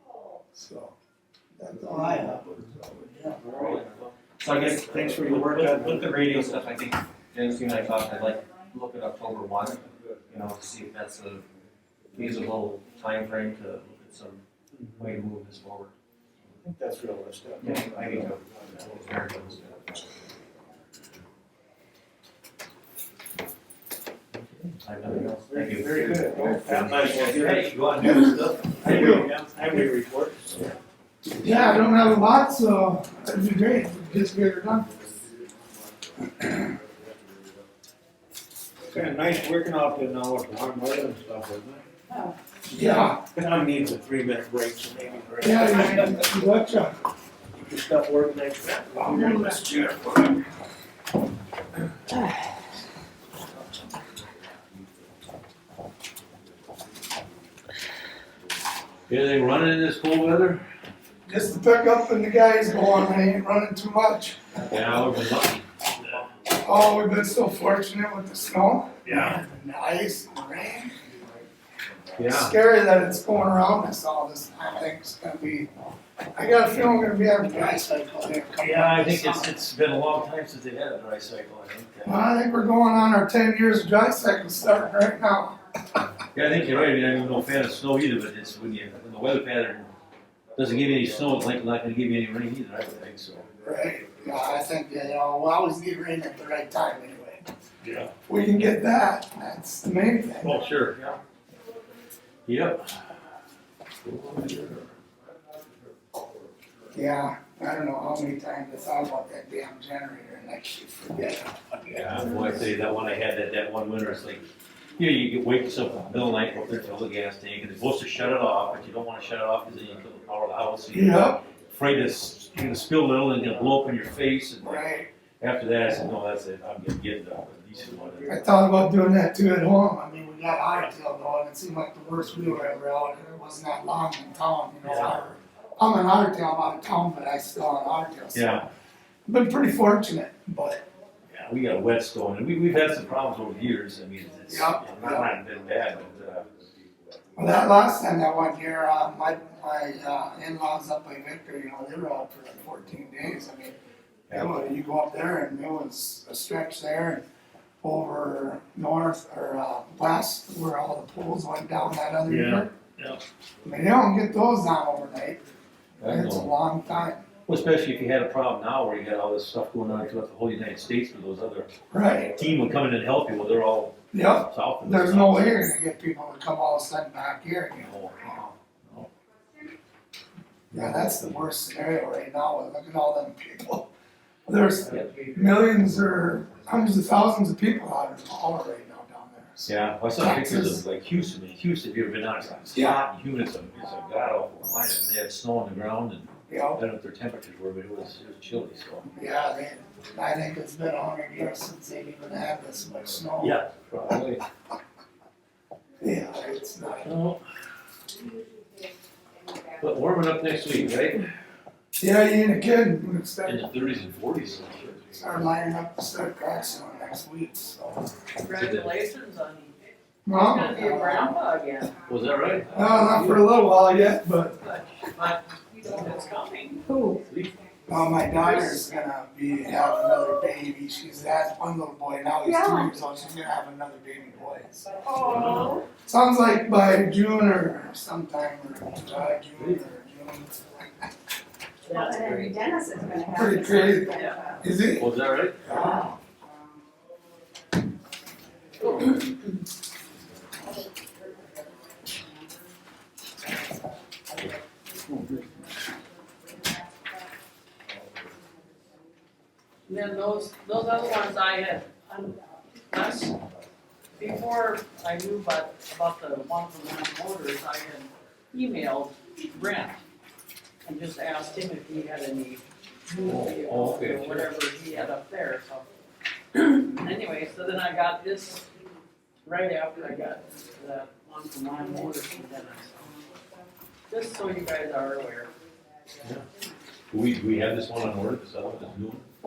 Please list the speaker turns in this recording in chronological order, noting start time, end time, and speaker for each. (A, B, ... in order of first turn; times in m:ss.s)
0:00.6-0:00.9 A
0:01.6-0:03.4 A
0:02.0-0:02.4 B
0:03.2-0:06.7 B
0:03.7-0:11.4 C
0:12.2-0:14.4 C
0:14.8-0:15.1 B
0:15.0-0:16.0 C
0:16.6-0:17.9 B
0:17.7-0:20.1 C
0:24.3-0:25.2 D
0:24.8-0:25.9 C
0:25.2-0:28.1 B
0:26.2-0:29.8 D
0:28.0-0:29.3 A
0:28.7-0:30.7 B
0:31.4-0:34.9 A
0:38.9-0:41.8 B
0:42.7-0:43.2 A
0:43.4-0:46.4 B
0:45.4-0:47.0 A
0:47.5-0:49.6 B
0:48.9-0:50.4 A
0:59.1-1:00.6 D
1:01.3-1:05.2 A
1:04.7-1:06.2 D
1:06.5-1:11.4 A
1:09.1-1:09.4 D
1:12.2-1:12.6 D
1:12.2-1:15.7 A
1:16.4-1:19.6 A
1:18.6-1:22.2 D
1:22.0-1:25.6 A
1:26.3-1:29.9 D
1:30.6-1:33.5 D
1:33.6-1:37.5 A
1:37.8-1:38.1 D
1:38.3-1:40.7 A
1:40.4-1:41.2 D
1:42.5-1:42.9 D
1:44.0-1:44.9 D
1:46.9-1:52.7 A
1:51.9-2:08.4 D
2:00.9-2:01.4 A
2:04.6-2:05.1 A
2:08.3-2:18.6 A
2:14.8-2:15.2 D
2:18.3-2:18.7 D
2:19.3-2:20.9 A
2:21.3-2:26.5 D
2:24.5-2:25.3 A
2:27.4-2:33.8 A
2:34.3-2:34.6 D
2:34.3-2:37.2 A
2:37.8-2:42.7 A
2:42.3-2:43.2 D
2:43.6-2:45.4 A
2:46.0-2:46.5 D
2:46.0-2:47.2 A
2:47.5-2:55.7 D
2:51.9-2:52.3 A
2:54.1-2:58.5 A
2:57.8-2:59.1 D
3:00.7-3:03.9 A
3:04.5-3:10.8 A
3:04.8-3:05.3 D
3:09.6-3:19.1 D
3:12.7-3:13.0 A
3:16.5-3:16.8 A
3:19.1-3:23.6 A
3:23.4-3:24.4 D
3:26.0-3:27.1 A
3:27.0-3:27.4 D
3:29.8-3:31.3 D
3:32.0-3:33.8 A
3:33.4-3:35.5 D
3:35.1-3:38.1 A
3:38.4-3:39.8 E
3:38.5-3:39.0 D
3:40.3-3:41.4 A
3:40.3-3:42.0 E
3:42.1-3:43.5 D
3:42.7-3:44.6 A
3:44.6-3:46.9 E
3:46.9-3:47.2 F
3:47.2-3:47.5 D
3:47.9-3:55.0 A
3:48.3-3:48.8 E
3:52.4-3:52.9 F
3:55.0-3:55.8 F
3:55.2-3:55.8 D
3:56.0-4:01.1 A
3:59.6-3:59.8 D
4:01.9-4:02.5 E
4:01.9-4:04.6 F
4:03.3-4:05.1 A
4:05.0-4:05.7 D
4:05.7-4:06.1 A
4:05.7-4:06.1 F
4:19.9-4:22.4 E
4:22.9-4:23.4 E
4:24.2-4:30.0 E
4:30.8-4:35.9 E
4:33.2-4:34.6 D
4:36.5-4:38.7 E
4:39.4-4:43.2 E
4:44.1-4:45.5 E
4:47.1-4:49.2 D